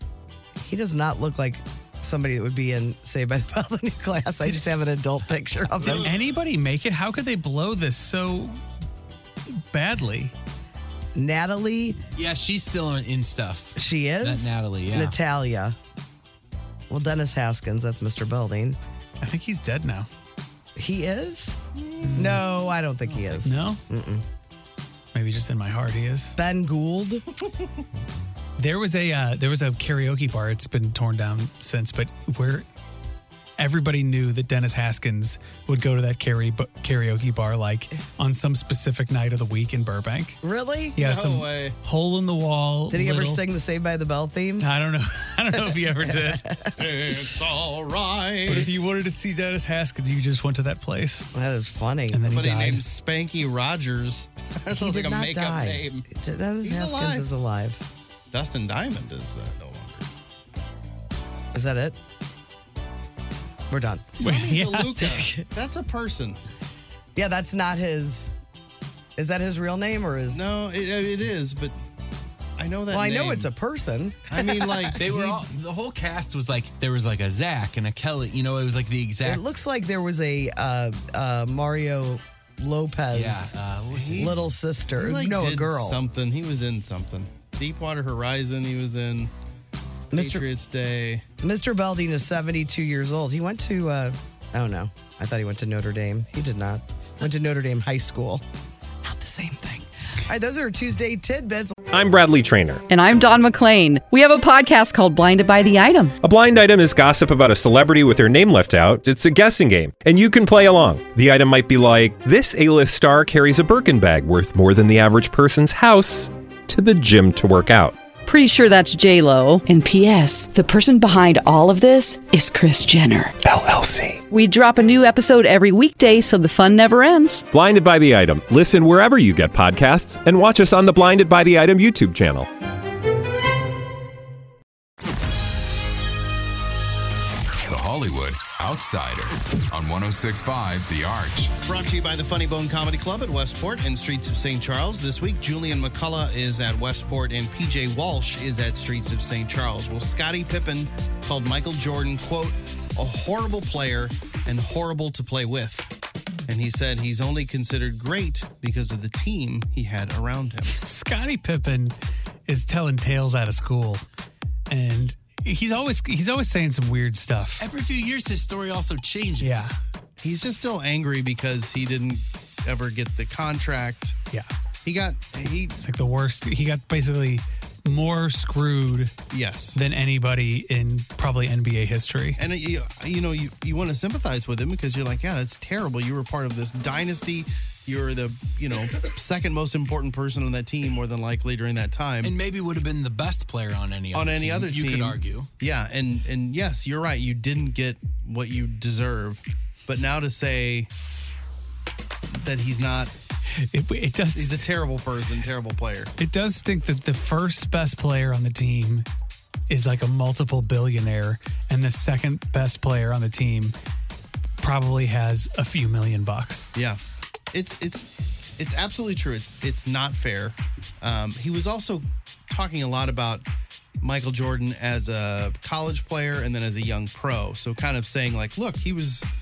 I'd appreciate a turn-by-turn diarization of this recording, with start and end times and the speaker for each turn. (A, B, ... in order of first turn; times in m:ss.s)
0:00.6-0:06.1 A
0:05.9-0:08.6 B
0:09.5-0:10.3 B
0:11.2-0:12.0 A
0:12.2-0:15.2 C
0:13.8-0:15.8 A
0:16.9-0:18.8 A
0:19.2-0:20.1 B
0:20.8-0:21.6 A
0:21.8-0:22.1 D
0:22.0-0:22.4 B
0:22.2-0:24.2 A
0:23.1-0:23.4 C
0:23.4-0:23.8 B
0:25.1-0:26.4 B
0:26.4-0:27.2 A
0:28.6-0:32.7 B
0:33.6-0:40.4 B
0:40.4-0:41.0 A
0:41.0-0:43.4 B
0:41.0-0:41.8 D
0:42.9-0:44.7 A
0:44.6-0:46.5 B
0:45.9-0:46.8 A
0:46.8-0:48.7 D
0:48.5-0:51.3 B
0:51.3-0:52.2 A
0:52.1-0:52.8 B
0:52.2-0:56.1 D
0:54.7-0:57.8 A
0:56.6-0:57.3 D
0:58.3-1:00.1 D
1:01.5-1:02.0 A
1:03.7-1:04.2 A
1:04.2-1:05.1 B
1:04.2-1:06.4 D
1:04.9-1:05.5 A
1:07.2-1:08.3 A
1:09.2-1:10.4 A
1:10.3-1:11.8 D
1:12.6-1:13.5 D
1:12.9-1:15.2 A
1:14.3-1:15.3 D
1:15.0-1:19.6 C
1:19.2-1:23.5 A
1:23.1-1:24.4 C
1:23.9-1:24.3 D
1:24.2-1:26.0 A
1:24.9-1:29.3 D
1:30.1-1:30.5 A
1:30.1-1:31.2 D
1:31.4-1:38.4 A
1:39.0-1:41.8 A
1:41.9-1:42.8 E
1:42.9-1:46.2 F
1:46.2-1:58.0 E
1:58.2-2:03.4 F
2:03.4-2:04.2 E
2:04.3-2:07.5 F
2:07.5-2:12.5 E
2:17.6-2:21.6 G
2:21.6-2:35.9 D
2:36.5-2:40.7 D
2:40.7-2:42.0 B
2:42.5-2:44.0 B
2:44.7-2:47.6 B
2:47.6-2:49.7 C
2:49.4-2:49.7 B
2:50.2-2:54.2 D
2:54.8-2:55.8 D
2:55.8-2:59.1 B
2:59.3-2:59.8 D
2:59.7-3:02.4 B
3:02.4-3:12.3 D
3:12.2-3:15.5 C
3:14.1-3:20.9 D
3:22.3-3:23.1 D
3:23.6-3:24.7 B
3:24.4-3:26.1 D
3:26.2-3:29.1 B
3:29.7-3:33.8 B
3:34.6-3:36.7 B
3:36.8-3:37.0 D
3:37.5-3:43.4 D
3:44.0-3:49.3 D